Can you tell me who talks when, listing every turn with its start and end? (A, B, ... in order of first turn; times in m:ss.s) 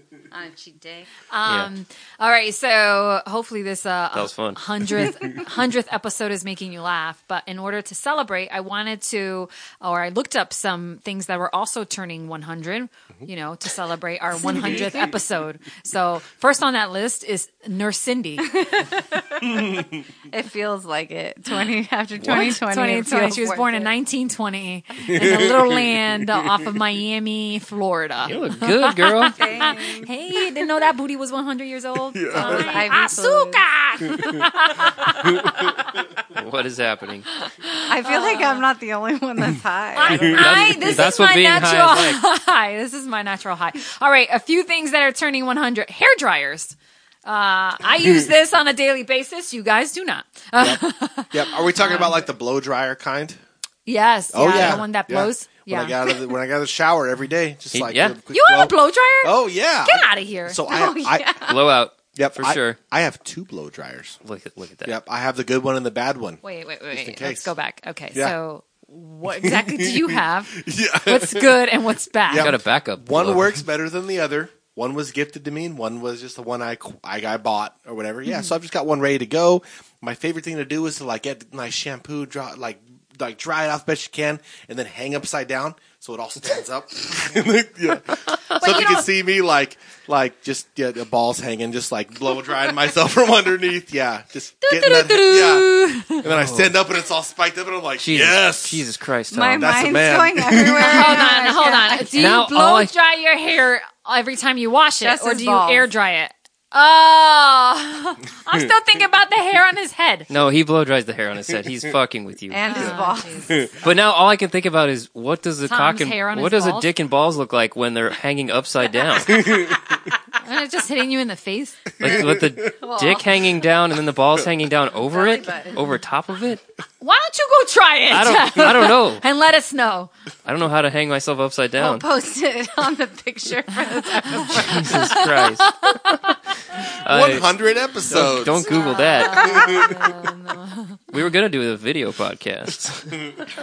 0:00.3-0:01.1 A
0:01.3-0:18.6 B
0:04.1-0:04.6 C
0:18.5-0:23.9 A
0:22.2-0:35.9 B
0:25.1-0:26.5 D
0:28.2-0:29.5 C
0:29.3-0:30.1 A
0:32.1-0:32.8 D
0:32.3-0:33.6 A
0:34.0-0:34.4 D
0:35.2-0:35.6 D
0:36.3-0:37.3 C
0:37.3-0:38.6 B
0:37.9-0:40.9 A
0:39.9-0:52.2 B
0:40.1-0:42.2 C
0:50.6-0:53.4 D
0:53.9-0:56.2 B
0:54.3-1:01.5 D
0:54.5-0:54.8 C
0:57.7-0:58.2 C
0:58.3-1:00.6 B
1:00.7-1:01.6 A
1:01.4-1:02.8 C
1:02.1-1:04.2 D
1:04.2-1:05.0 C
1:04.8-1:06.4 D
1:06.4-1:12.6 B
1:06.9-1:07.5 D
1:09.4-1:11.6 D
1:12.2-1:38.9 D
1:12.3-1:13.6 C
1:18.2-1:18.5 B
1:28.6-1:29.1 B
1:34.6-1:36.2 B
1:36.2-1:36.7 C
1:38.0-1:39.9 C
1:39.3-1:42.4 A
1:39.6-1:41.3 D
1:40.7-1:50.3 B
1:42.1-1:42.9 C
1:45.0-1:45.9 A
1:50.3-1:52.7 C
1:52.5-1:53.8 A
1:52.6-1:53.7 B
1:53.8-1:59.6 C
1:55.6-1:56.9 B
1:59.4-1:59.7 D
2:00.4-2:01.8 B
2:02.0-2:06.6 C
2:02.0-2:02.6 D
2:02.7-2:03.5 A
2:05.1-2:05.9 A
2:07.0-2:10.1 B
2:08.1-2:09.2 C
2:10.4-2:12.1 C
2:11.8-2:15.3 A
2:14.2-2:16.4 B
2:14.5-2:16.3 C
2:16.8-2:17.5 C
2:17.0-2:20.1 D
2:18.1-2:19.9 C
2:18.7-2:21.0 B
2:21.1-2:23.4 C